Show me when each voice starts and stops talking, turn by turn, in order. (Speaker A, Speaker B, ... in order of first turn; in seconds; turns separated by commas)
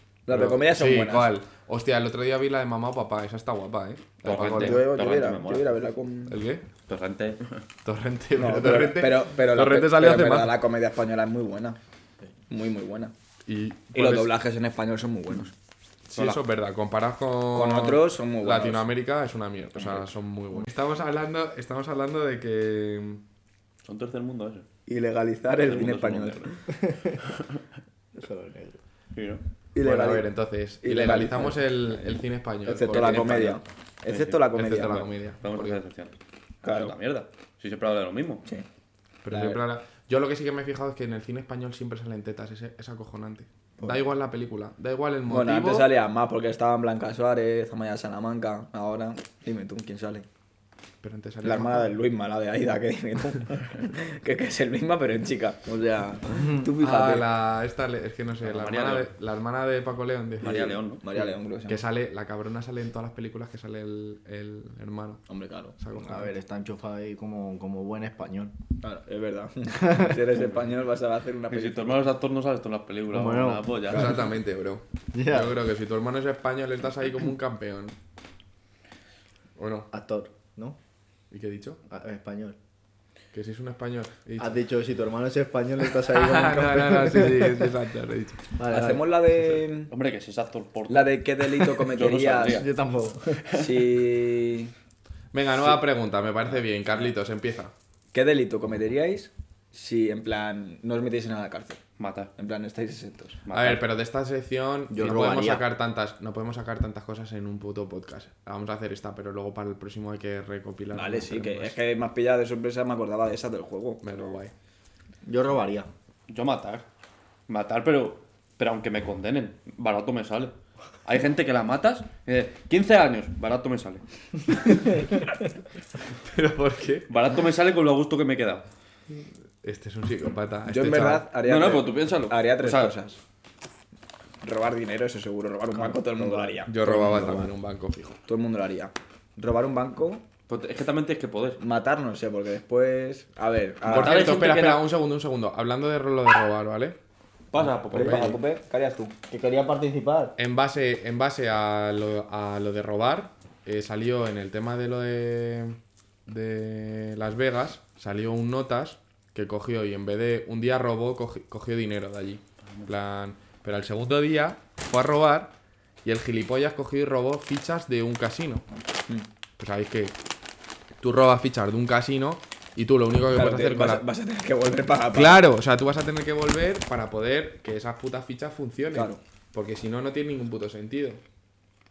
Speaker A: 0.2-1.3, Speaker B: 0.3-4.8, Speaker C: 4.2-5.7, Speaker A: 4.3-6.4, Speaker B: 6.3-6.7, Speaker C: 6.9-7.6, Speaker B: 7.8-10.5, Speaker A: 8.3-11.8, Speaker A: 12.5-13.1, Speaker B: 13.4-14.3, Speaker A: 13.9-15.5, Speaker B: 16.1-23.2, Speaker A: 17.5-18.9, Speaker A: 19.8-20.1, Speaker C: 23.8-24.6, Speaker A: 24.9-26.6, Speaker C: 25.6-27.4, Speaker D: 26.9-27.2, Speaker D: 28.1-28.8, Speaker C: 29.1-29.4, Speaker A: 29.7-30.3, Speaker B: 29.8-33.6, Speaker A: 30.8-35.1, Speaker C: 32.9-38.5, Speaker B: 34.5-35.8, Speaker A: 36.6-36.9, Speaker B: 39.2-45.9, Speaker A: 39.3-39.6, Speaker A: 45.3-50.2, Speaker B: 51.0-51.9, Speaker A: 51.4-57.3, Speaker B: 56.7-60.8, Speaker C: 58.4-59.1, Speaker C: 60.4-61.0, Speaker A: 60.4-61.8, Speaker B: 61.7-65.2, Speaker A: 65.3-65.7, Speaker B: 65.8-66.3, Speaker D: 65.9-68.5, Speaker A: 68.8-72.0, Speaker D: 69.8-70.1, Speaker C: 71.5-74.1, Speaker D: 73.1-73.7, Speaker B: 73.9-78.0, Speaker D: 75.1-75.5, Speaker B: 79.6-79.9, Speaker D: 79.9-80.8, Speaker B: 81.3-81.8, Speaker D: 81.9-82.5, Speaker B: 83.3-84.6, Speaker D: 84.4-87.7, Speaker B: 86.1-88.5, Speaker D: 88.5-89.1, Speaker A: 88.7-89.9, Speaker C: 89.9-92.7, Speaker A: 90.9-92.7, Speaker D: 92.5-93.5, Speaker A: 93.5-94.7, Speaker C: 93.5-93.8, Speaker B: 95.3-97.7, Speaker A: 98.1-101.8, Speaker C: 102.0-102.3, Speaker A: 102.4-103.4, Speaker C: 103.5-103.8, Speaker B: 103.5-111.8, Speaker D: 104.9-105.6, Speaker A: 110.9-114.3, Speaker B: 114.0-114.5, Speaker D: 115.2-115.9, Speaker C: 116.3-116.8, Speaker C: 117.5-124.0, Speaker C: 124.5-124.8, Speaker B: 126.1-127.1, Speaker C: 127.1-128.7, Speaker B: 129.6-131.3, Speaker A: 130.7-133.2, Speaker C: 131.3-133.0, Speaker A: 134.4-137.5, Speaker B: 135.8-138.2, Speaker A: 138.3-140.2, Speaker C: 140.5-141.6, Speaker A: 141.6-144.6, Speaker C: 143.8-144.9, Speaker B: 143.8-147.0, Speaker C: 147.5-148.4, Speaker A: 147.6-149.2, Speaker B: 147.8-148.3, Speaker D: 149.3-150.3, Speaker B: 150.4-168.7, Speaker B: 169.6-170.2, Speaker B: 171.0-174.0, Speaker A: 173.3-175.4, Speaker B: 175.1-181.2, Speaker A: 178.9-179.2